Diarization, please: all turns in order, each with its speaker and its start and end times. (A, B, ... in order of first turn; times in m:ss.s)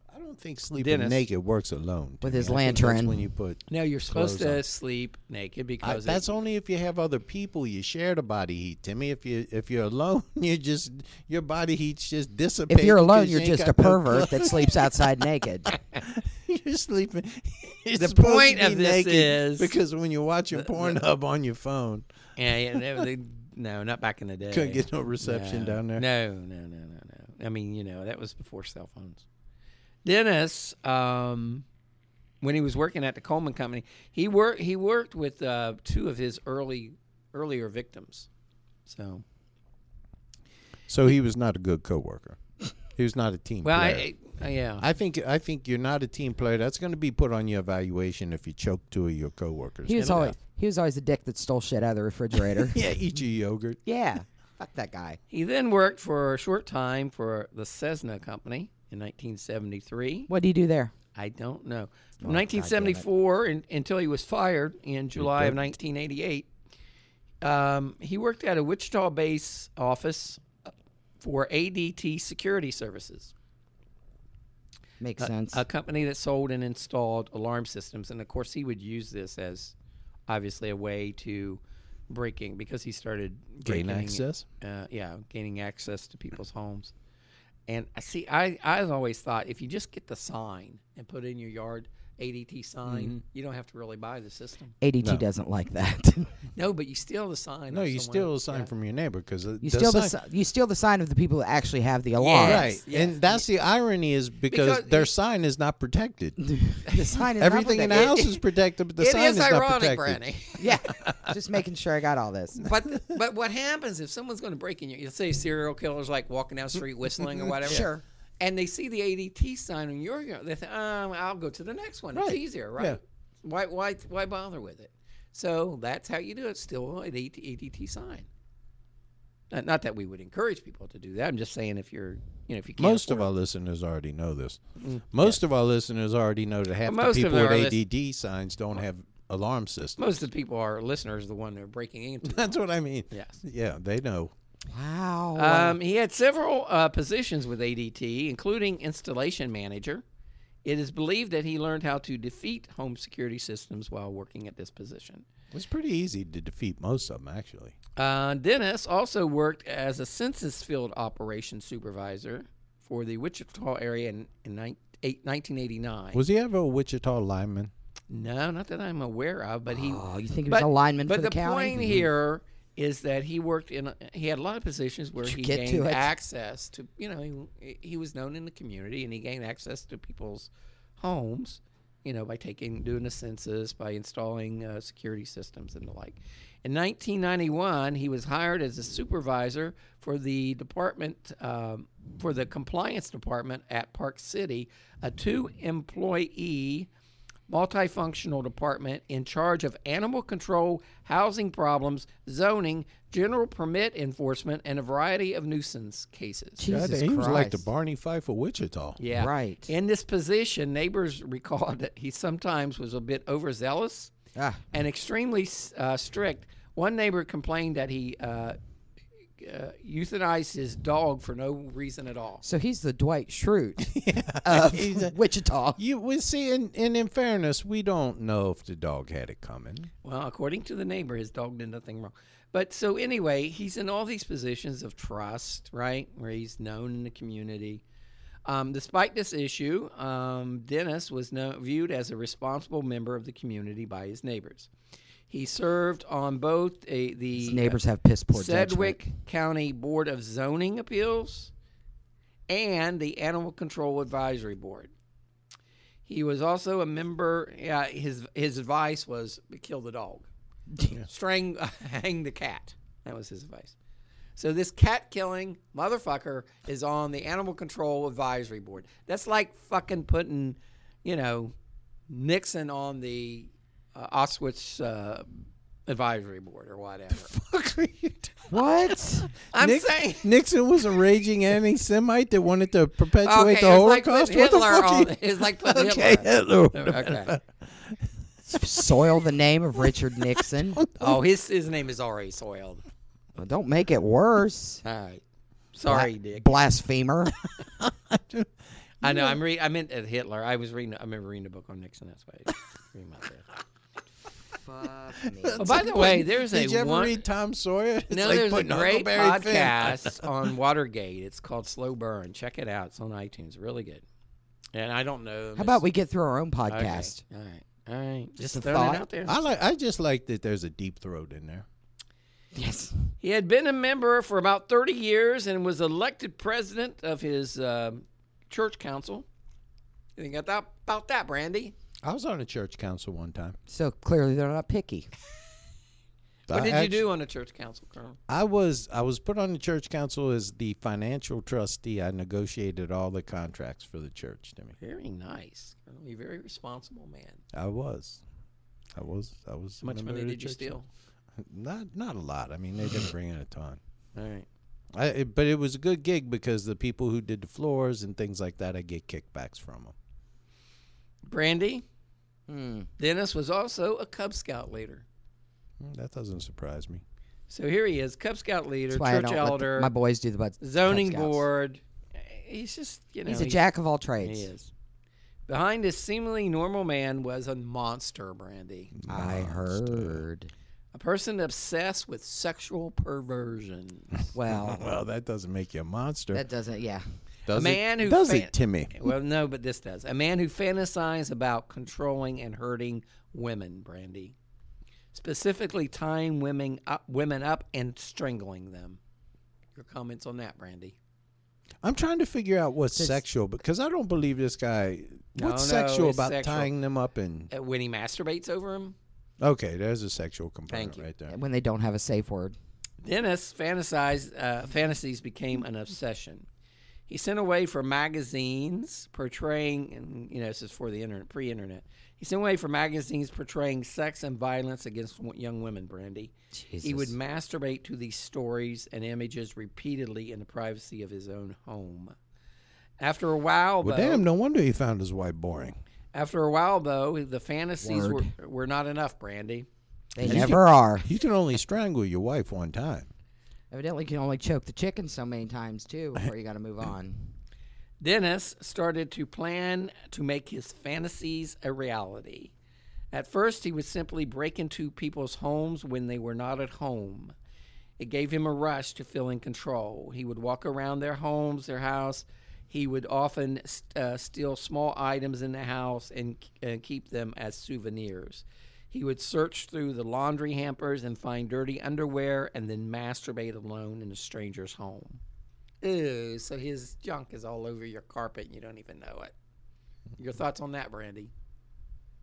0:00.1-0:04.6 A
0:00.8-0:01.3 B
0:02.2-0:03.2 C
0:03.7-0:06.4 B
0:05.8-0:14.9 A
0:12.7-0:15.7 C
0:16.0-0:22.1 A
0:18.0-0:19.8 B
0:20.5-0:21.0 B
0:22.4-0:29.2 B
0:24.5-0:26.0 A
0:30.0-0:31.6 B
0:32.4-0:38.3 B
0:38.9-0:39.2 B
0:40.9-0:42.4 A
0:43.0-0:44.1 A
0:43.6-0:44.9 B
0:44.8-0:50.4 A
0:49.9-0:52.8 C
0:50.0-0:50.3 B
0:52.6-0:53.8 A
0:53.8-0:55.2 C
0:55.3-1:00.3 B
1:00.3-1:00.9 C
1:01.2-1:06.5 B
1:02.2-1:03.1 C
1:05.2-1:05.6 A
1:07.4-1:10.7 B
1:11.2-1:13.3 B
1:15.0-1:15.6 C
1:15.2-1:19.8 B
1:20.3-1:26.9 B
1:23.6-1:24.4 A
1:27.7-1:34.8 B
1:32.9-1:33.1 A
1:34.8-1:36.4 C
1:36.6-1:38.7 B
1:37.7-1:40.1 A
1:39.6-1:42.8 C
1:42.2-1:43.5 B
1:42.4-1:46.6 A
1:44.5-1:45.1 B
1:46.5-1:48.2 C
1:46.8-1:47.2 B
1:47.4-1:50.2 A
1:47.9-1:48.4 B
1:49.0-1:51.1 B
1:50.6-1:52.6 C
1:52.6-2:08.3 B
1:57.4-1:57.8 A
1:57.6-1:58.0 C
2:02.1-2:03.0 A
2:09.5-2:13.3 B
2:12.8-2:20.0 A
2:14.8-2:15.4 B
2:16.9-2:17.8 B
2:20.0-2:22.5 B
2:22.2-2:24.3 A
2:23.1-2:23.4 B
2:24.7-2:25.8 C
2:25.4-2:30.0 B
2:30.6-2:35.3 B
2:35.5-2:37.8 A
2:38.0-2:46.2 B
2:46.1-2:47.7 A
2:48.1-3:16.9 B
2:49.7-2:52.1 C
2:55.2-2:56.1 C
3:17.5-3:26.7 B
3:26.6-3:27.7 C
3:26.7-3:29.0 A
3:29.0-3:34.1 B
3:29.1-3:29.7 C
3:34.4-3:34.6 C
3:34.7-3:38.6 B
3:39.4-3:42.4 B
3:42.4-3:45.8 C
3:43.8-3:45.2 A
3:45.8-3:49.9 A
3:50.0-3:57.8 B
3:58.5-4:04.7 B
4:05.3-4:07.8 B
4:07.4-4:09.0 C
4:08.3-4:11.5 B
4:12.5-4:14.9 B
4:16.1-4:20.3 B
4:20.7-4:21.0 C
4:21.0-4:23.8 B
4:24.4-4:31.5 B
4:32.1-4:35.3 B
4:35.9-4:37.3 B
4:37.1-4:38.6 A
4:38.5-4:39.3 C
4:39.4-4:49.1 A
4:39.5-4:40.3 B
4:43.2-4:47.4 B
4:48.5-4:50.8 C
4:49.9-4:51.2 A
4:51.0-4:52.8 B
4:53.4-4:54.8 C
4:54.8-4:55.2 B
4:55.7-4:56.6 B
4:55.9-4:57.3 C
4:57.8-4:58.5 A
4:59.0-5:03.5 B
4:59.0-4:59.3 A
5:04.3-5:05.9 C
5:05.2-5:10.3 A
5:05.6-5:07.2 B
5:08.1-5:14.0 B
5:14.7-5:15.8 B
5:15.6-5:17.2 C
5:16.7-5:19.4 B
5:18.4-5:19.0 C
5:19.3-5:21.6 A
5:22.5-5:23.1 C
5:23.2-5:29.3 B
5:30.2-5:31.8 B
5:32.0-5:33.6 A
5:33.7-5:35.1 C
5:36.5-5:37.1 A
5:36.5-5:38.2 B
5:38.3-5:44.8 A
5:44.8-5:47.4 B
5:47.5-5:48.2 A
5:49.0-5:50.8 A
5:49.8-5:50.9 B
5:51.4-5:53.8 A
5:54.2-5:54.5 B
5:54.9-5:59.9 A
6:01.3-6:01.8 B
6:02.5-6:02.9 C
6:03.0-6:05.0 B
6:05.8-6:07.0 A
6:07.5-6:09.9 B
6:08.9-6:11.4 C
6:10.6-6:13.7 B
6:13.3-6:14.5 C
6:14.2-6:14.7 B
6:15.5-6:18.9 B
6:19.0-6:20.2 A
6:19.1-6:20.5 C
6:20.9-6:24.3 B
6:24.3-6:24.9 C
6:24.5-6:26.4 A
6:26.3-6:27.0 C
6:27.5-6:29.1 A
6:27.5-6:34.4 B
6:35.1-6:39.0 B
6:39.8-6:41.0 B
6:41.8-6:47.5 A
6:42.9-6:43.2 C
6:45.4-6:46.7 B
6:47.5-6:49.0 B
6:49.4-6:51.3 A
6:50.7-6:51.1 B
6:51.3-6:52.6 C
6:53.0-6:56.5 B
6:57.1-7:12.2 B
7:06.5-7:07.2 C
7:13.0-7:14.2 B
7:13.8-7:15.8 A
7:16.1-7:19.7 B
7:17.8-7:18.3 C
7:20.2-7:21.1 C
7:20.2-7:23.1 A
7:20.2-7:20.6 B
7:23.7-7:27.3 C
7:28.0-7:32.5 B
7:33.1-7:37.4 B
7:38.0-7:55.2 B
7:55.8-7:59.3 B
8:00.2-8:01.3 B